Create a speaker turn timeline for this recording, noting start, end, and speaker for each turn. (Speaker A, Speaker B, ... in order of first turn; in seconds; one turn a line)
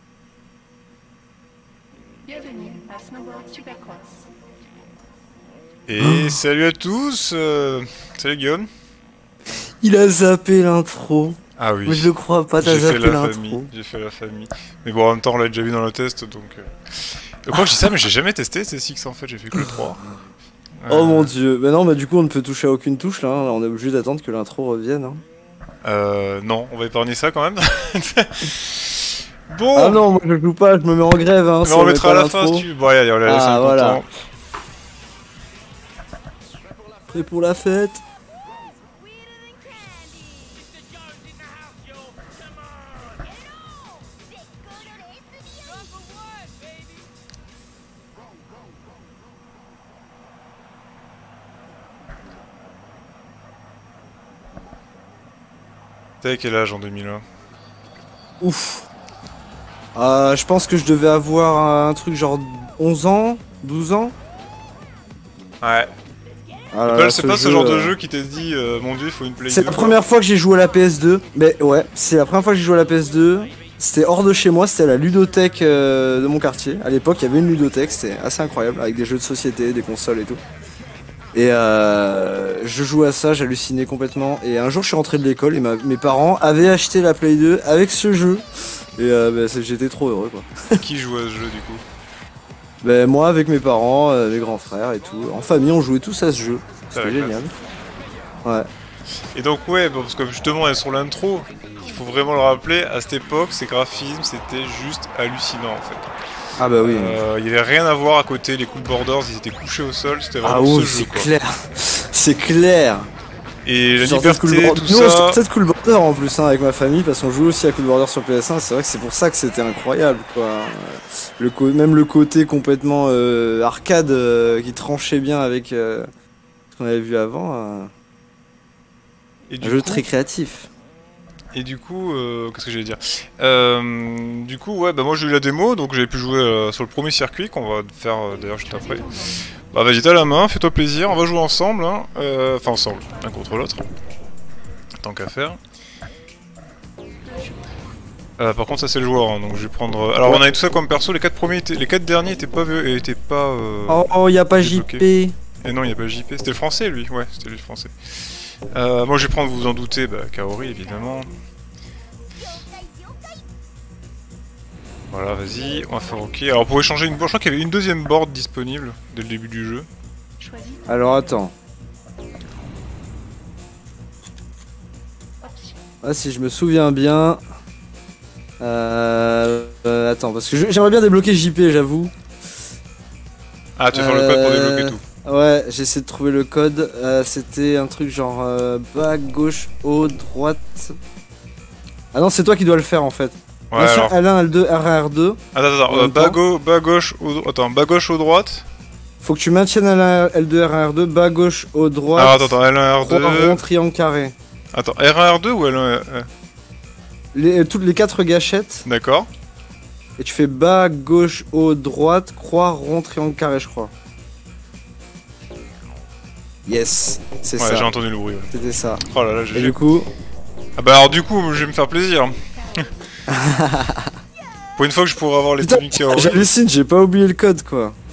Speaker A: 2.2-4.3
Speaker B: 5.9-8.7
Speaker C: 6.0-6.4
Speaker C: 9.8-13.7
Speaker B: 11.6-20.0
Speaker B: 20.8-21.3
Speaker C: 20.9-25.2
Speaker B: 25.8-30.1
Speaker C: 29.8-32.7
Speaker B: 31.6-34.1
Speaker C: 33.2-34.0
Speaker C: 37.1-38.0
Speaker B: 56.2-57.2
Speaker C: 58.4-58.9
Speaker C: 60.0-64.2
Speaker B: 65.6-65.9
Speaker C: 66.7-67.9
Speaker B: 66.9-70.0
Speaker C: 69.5-80.4
Speaker C: 81.3-88.5
Speaker C: 89.0-90.8
Speaker B: 90.8-91.8
Speaker C: 92.8-97.5
Speaker B: 96.9-97.4
Speaker B: 99.3-106.1
Speaker C: 106.6-107.2
Speaker B: 106.8-111.3
Speaker C: 110.4-113.1
Speaker B: 113.7-115.4
Speaker C: 114.0-126.1
Speaker C: 126.8-127.9
Speaker B: 129.5-130.1
Speaker C: 129.6-130.7
Speaker B: 131.5-139.2
Speaker A: 138.8-139.3
Speaker B: 139.7-143.8
Speaker B: 145.0-145.6
Speaker A: 147.2-147.7
Speaker B: 148.4-155.1
Speaker C: 150.3-150.6
Speaker C: 153.9-155.3
Speaker B: 155.6-161.3
Speaker B: 165.1-169.9
Speaker A: 170.4-171.4
Speaker C: 170.9-171.5
Speaker A: 175.4-175.8
Speaker C: 176.0-177.4
Speaker C: 178.6-182.1
Speaker B: 183.8-185.0
Speaker C: 183.9-191.0
Speaker C: 192.1-196.4
Speaker B: 193.7-194.2
Speaker B: 195.5-198.7
Speaker C: 199.2-204.3
Speaker B: 202.2-203.6
Speaker B: 204.7-206.3
Speaker C: 207.3-208.9
Speaker B: 208.9-209.3
Speaker C: 210.2-213.9
Speaker C: 216.7-217.9
Speaker B: 217.6-219.8
Speaker C: 218.5-220.1
Speaker B: 220.8-222.9
Speaker C: 223.3-224.1
Speaker B: 224.8-226.5
Speaker C: 225.6-228.0